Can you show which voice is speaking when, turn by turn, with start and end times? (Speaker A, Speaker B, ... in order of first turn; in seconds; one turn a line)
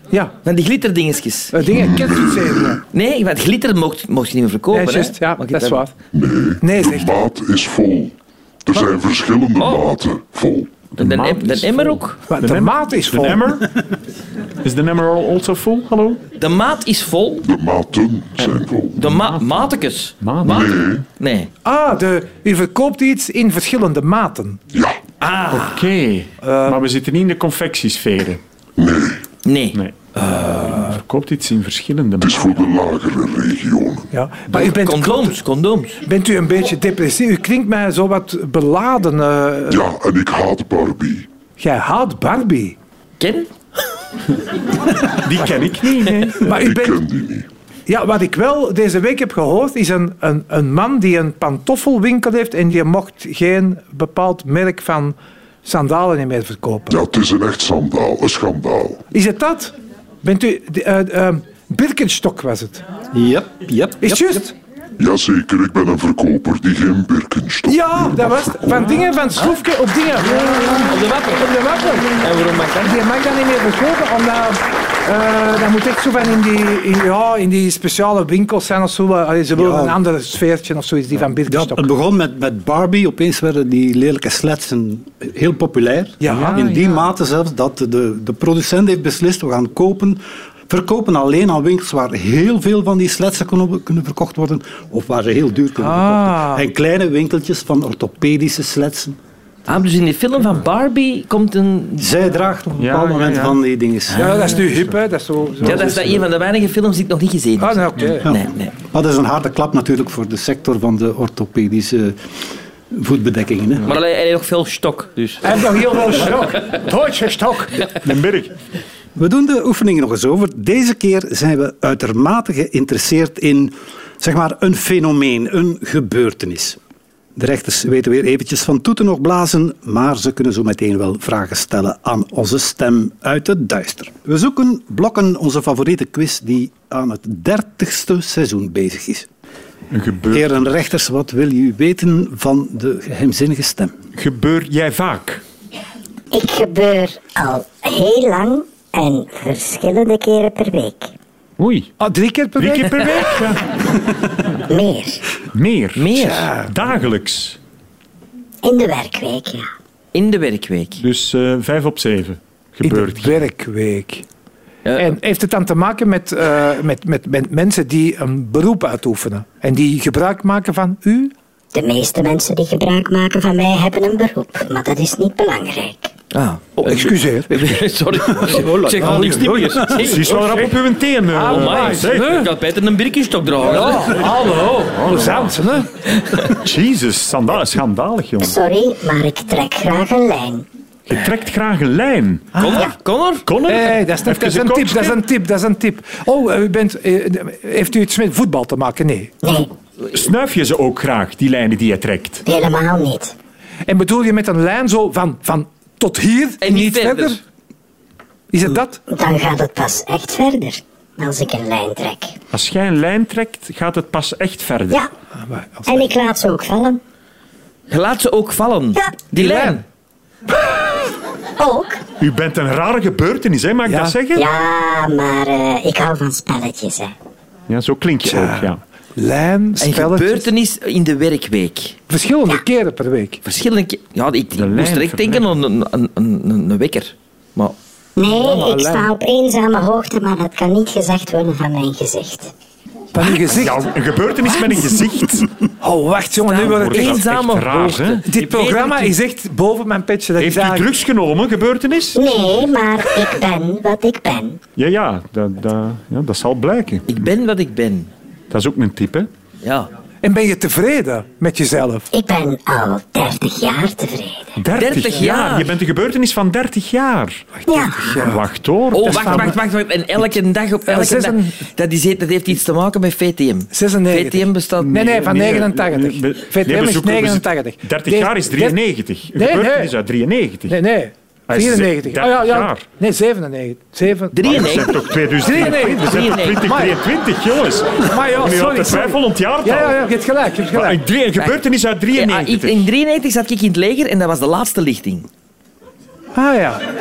Speaker A: 0.4-1.6
Speaker B: 1.5-2.8
Speaker C: 1.7-2.8
Speaker A: 2.9-5.9
Speaker B: 4.7-5.9
Speaker C: 6.1-8.1
Speaker B: 6.6-7.1
Speaker C: 8.7-10.9
Speaker A: 9.6-10.0
Speaker A: 11.0-12.2
Speaker D: 11.0-13.7
Speaker B: 12.3-13.5
Speaker D: 14.6-16.2
Speaker A: 16.4-17.4
Speaker C: 17.4-19.0
Speaker D: 18.4-20.7
Speaker A: 19.0-21.5
Speaker C: 20.5-21.1
Speaker B: 21.6-24.6
Speaker C: 24.7-25.0
Speaker D: 25.5-28.4
Speaker B: 26.4-26.8
Speaker C: 28.8-29.2
Speaker A: 29.4-29.8
Speaker D: 29.7-32.6
Speaker B: 30.1-30.9
Speaker C: 32.2-34.1
Speaker B: 34.1-35.4
Speaker A: 34.5-36.0
Speaker B: 36.0-39.8
Speaker C: 39.7-41.3
Speaker B: 41.6-42.8
Speaker A: 43.2-43.5
Speaker D: 45.1-46.4
Speaker B: 46.4-47.0
Speaker C: 46.5-47.5
Speaker B: 47.9-57.0
Speaker C: 56.9-59.0
Speaker B: 59.1-62.8
Speaker E: 63.1-64.4
Speaker B: 64.0-64.5
Speaker C: 65.0-68.5
Speaker B: 67.7-72.3
Speaker A: 70.3-73.0
Speaker B: 72.8-81.9
Speaker E: 79.5-80.0
Speaker E: 81.5-99.2
Speaker B: 86.2-87.0
Speaker B: 95.8-96.6
Speaker A: 99.7-102.1
Speaker E: 102.0-104.2
Speaker D: 102.8-103.6
Speaker B: 104.2-106.2
Speaker A: 104.2-104.7
Speaker A: 105.6-108.7
Speaker B: 107.6-108.3
Speaker E: 108.2-112.2
Speaker E: 112.9-113.9
Speaker A: 113.8-116.1
Speaker B: 115.4-117.8
Speaker D: 117.9-118.5
Speaker E: 119.2-126.8
Speaker E: 127.3-139.3
Speaker D: 139.9-140.5
Speaker E: 140.3-143.9
Speaker D: 144.1-145.4
Speaker F: 146.3-151.1
Speaker D: 151.6-151.9
Speaker B: 152.0-153.3
Speaker D: 152.6-153.6
Speaker F: 154.7-155.2
Speaker D: 155.5-157.6
Speaker A: 156.0-156.5
Speaker B: 156.3-156.6
Speaker F: 158.6-159.7
Speaker A: 160.1-161.0
Speaker D: 161.0-163.3
Speaker B: 162.8-164.2
Speaker A: 164.8-165.1
Speaker B: 165.0-171.3
Speaker F: 171.7-176.1
Speaker A: 176.3-180.6
Speaker B: 176.8-177.8
Speaker E: 178.4-180.1
Speaker B: 179.1-179.6
Speaker D: 179.9-182.5
Speaker B: 180.2-180.7
Speaker B: 181.3-182.5
Speaker A: 181.4-184.2
Speaker B: 183.6-185.9
Speaker D: 184.1-185.6
Speaker D: 186.5-188.6
Speaker F: 188.4-190.6
Speaker D: 191.1-192.6
Speaker B: 192.5-192.9
Speaker A: 192.6-193.4
Speaker D: 193.4-195.2
Speaker B: 193.7-199.3
Speaker F: 199.4-199.7
Speaker D: 200.1-202.4
Speaker F: 202.4-203.3
Speaker B: 203.9-207.4
Speaker A: 206.6-207.4
Speaker B: 208.5-209.0
Speaker F: 209.1-212.3
Speaker D: 212.5-215.0
Speaker B: 215.3-216.0
Speaker F: 215.9-217.0
Speaker A: 217.9-219.8
Speaker B: 219.3-219.8
Speaker F: 221.6-222.0
Speaker D: 222.2-224.5
Speaker B: 223.8-224.1
Speaker F: 224.3-227.1
Speaker D: 227.7-228.8
Speaker B: 228.2-230.5
Speaker A: 229.8-232.0
Speaker B: 232.1-233.4
Speaker A: 233.4-237.8
Speaker D: 234.5-235.5
Speaker F: 238.2-242.5
Speaker B: 238.4-239.1
Speaker B: 243.1-243.8
Speaker D: 243.5-245.5
Speaker B: 245.8-247.2
Speaker A: 246.3-249.1
Speaker D: 246.6-248.2
Speaker B: 248.3-250.9
Speaker D: 250.4-252.5
Speaker F: 252.1-254.6
Speaker D: 254.8-257.1
Speaker A: 257.1-258.1
Speaker D: 258.5-259.3
Speaker A: 259.6-259.9
Speaker B: 260.2-262.1
Speaker F: 262.1-264.5
Speaker D: 264.6-267.5
Speaker A: 264.8-265.7
Speaker B: 267.6-268.4
Speaker F: 267.7-268.3
Speaker D: 268.2-269.5
Speaker A: 268.9-275.0
Speaker B: 269.0-269.6
Speaker B: 270.9-271.6
Speaker B: 273.7-278.8
Speaker D: 274.8-280.8
Speaker B: 279.3-279.9
Speaker B: 280.7-284.9
Speaker D: 281.5-282.8
Speaker A: 284.3-285.1
Speaker D: 284.4-290.1
Speaker B: 285.4-287.0
Speaker A: 286.1-286.6
Speaker B: 288.0-291.0
Speaker D: 290.7-292.8
Speaker A: 292.1-295.3
Speaker B: 296.3-296.8